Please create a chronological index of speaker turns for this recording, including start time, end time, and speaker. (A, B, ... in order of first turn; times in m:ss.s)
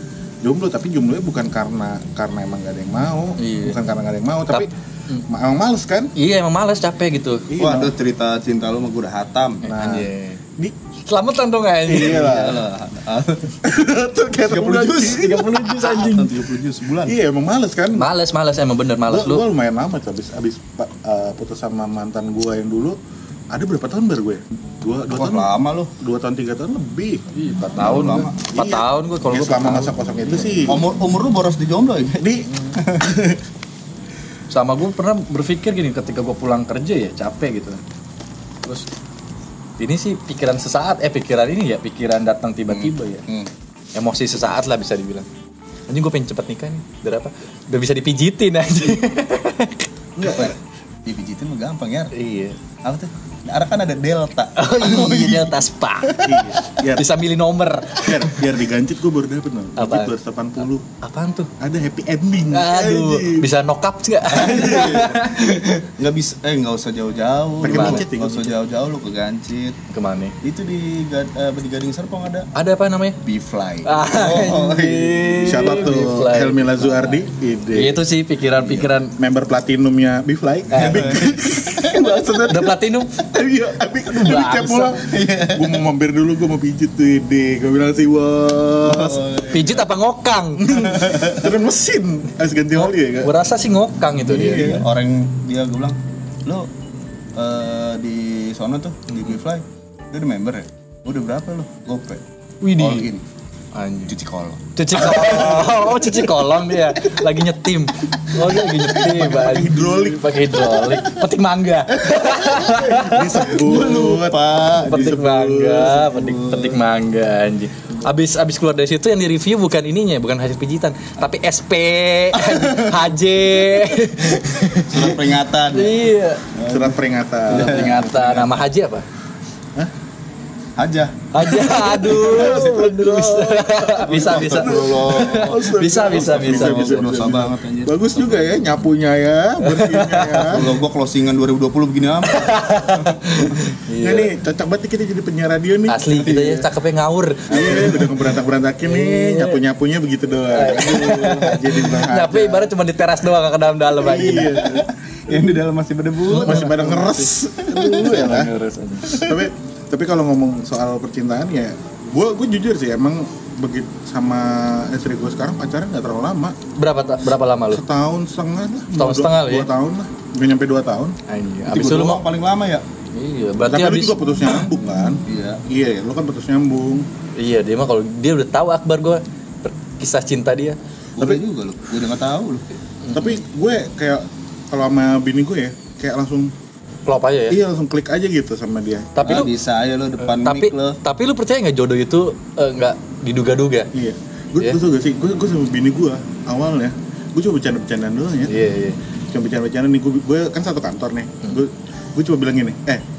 0:00.4-0:04.7 A
0:03.4-0:03.8 B
0:04.5-0:05.2 B
0:05.3-0:06.1 A
0:06.2-0:07.5 B
0:07.5-0:07.9 A
0:07.6-0:09.6 C
0:09.6-0:10.4 B
0:09.6-0:10.8 A
0:11.0-0:12.4 B
0:11.8-0:12.6 A
0:11.9-0:13.6 C
0:13.6-0:15.5 A
0:14.5-0:17.2 C
0:15.0-0:16.3 B
0:17.0-0:18.1 A
0:18.0-0:19.4 B
0:19.0-0:23.0 A
0:23.5-0:27.2 A
0:25.1-0:25.9 C
0:27.3-0:30.7 B
0:27.8-0:28.4 C
0:28.5-0:30.8 A
0:30.6-0:33.4 C
0:32.2-0:33.3 A
0:34.5-0:37.8 B
0:39.8-0:43.2 B
0:42.7-0:43.5 C
0:43.9-0:45.2 B
0:45.9-0:49.9 B
0:50.2-0:50.5 A
0:50.2-0:52.1 C
0:52.1-0:52.6 B
0:52.8-0:56.6 C
0:54.6-0:56.3 B
0:56.2-0:57.1 A
0:56.9-0:58.4 B
0:58.0-1:00.8 A
0:59.8-1:00.1 B
1:01.0-1:01.5 B
1:01.6-1:03.5 A
1:02.5-1:05.8 B
1:04.3-1:09.8 C
1:07.6-1:08.6 A
1:07.6-1:08.0 B
1:09.9-1:10.3 B
1:10.4-1:12.5 C
1:12.5-1:13.2 B
1:13.2-1:15.7 C
1:13.8-1:17.2 B
1:15.4-1:18.0 A
1:17.7-1:19.1 B
1:18.6-1:18.9 C
1:19.2-1:29.3 A
1:20.7-1:21.4 B
1:20.7-1:22.0 C
1:22.4-1:23.2 B
1:24.1-1:25.0 B
1:24.9-1:25.8 C
1:28.8-1:29.9 C
1:29.5-1:30.7 B
1:30.6-1:33.3 A
1:30.7-1:31.5 C
1:32.7-1:34.8 B
1:34.2-1:34.9 A
1:34.4-1:36.7 C
1:37.4-1:42.2 C
1:42.6-1:43.1 B
1:42.8-1:43.2 C
1:43.7-1:44.1 B
1:44.1-1:45.7 C
1:44.8-1:53.9 B
1:45.1-1:45.9 A
1:48.4-1:49.7 C
1:49.1-1:50.2 A
1:50.6-1:51.2 C
1:51.9-1:56.8 C
1:52.8-1:55.9 A
1:54.7-2:05.2 B
2:02.3-2:03.1 C
2:04.7-2:08.5 C
2:05.7-2:06.4 B
2:06.7-2:08.0 A
2:07.5-2:09.0 B
2:10.8-2:12.7 C
2:11.3-2:17.2 B
2:11.8-2:20.7 A
2:14.0-2:18.6 C
2:19.6-2:20.6 B
2:20.4-2:23.1 C
2:22.3-2:24.3 B
2:24.0-2:26.5 A
2:25.9-2:28.1 B
2:26.1-2:26.6 C
2:27.5-2:28.1 C
2:27.5-2:32.7 A
2:28.8-2:29.6 B
2:30.5-2:34.8 B
2:34.0-2:38.2 C
2:34.0-2:34.9 A
2:36.3-2:39.2 B
2:36.3-2:38.5 A
2:39.0-2:39.4 C
2:39.2-2:46.6 A
2:46.8-2:47.8 B
2:47.7-2:51.1 A
2:48.9-2:49.7 B
2:51.3-2:52.2 B
2:51.7-2:52.8 C
2:53.1-2:54.5 B
2:53.6-2:57.1 A
2:55.2-2:55.6 C
2:57.4-3:00.8 B
3:01.2-3:02.6 C
3:03.0-3:03.4 B
3:03.1-3:06.5 A
3:07.0-3:07.6 B
3:07.5-3:09.2 A
3:09.2-3:09.5 B
3:09.2-3:11.0 C
3:10.2-3:13.9 B
3:13.9-3:18.5 A
3:18.5-3:19.0 B
3:19.3-3:23.0 A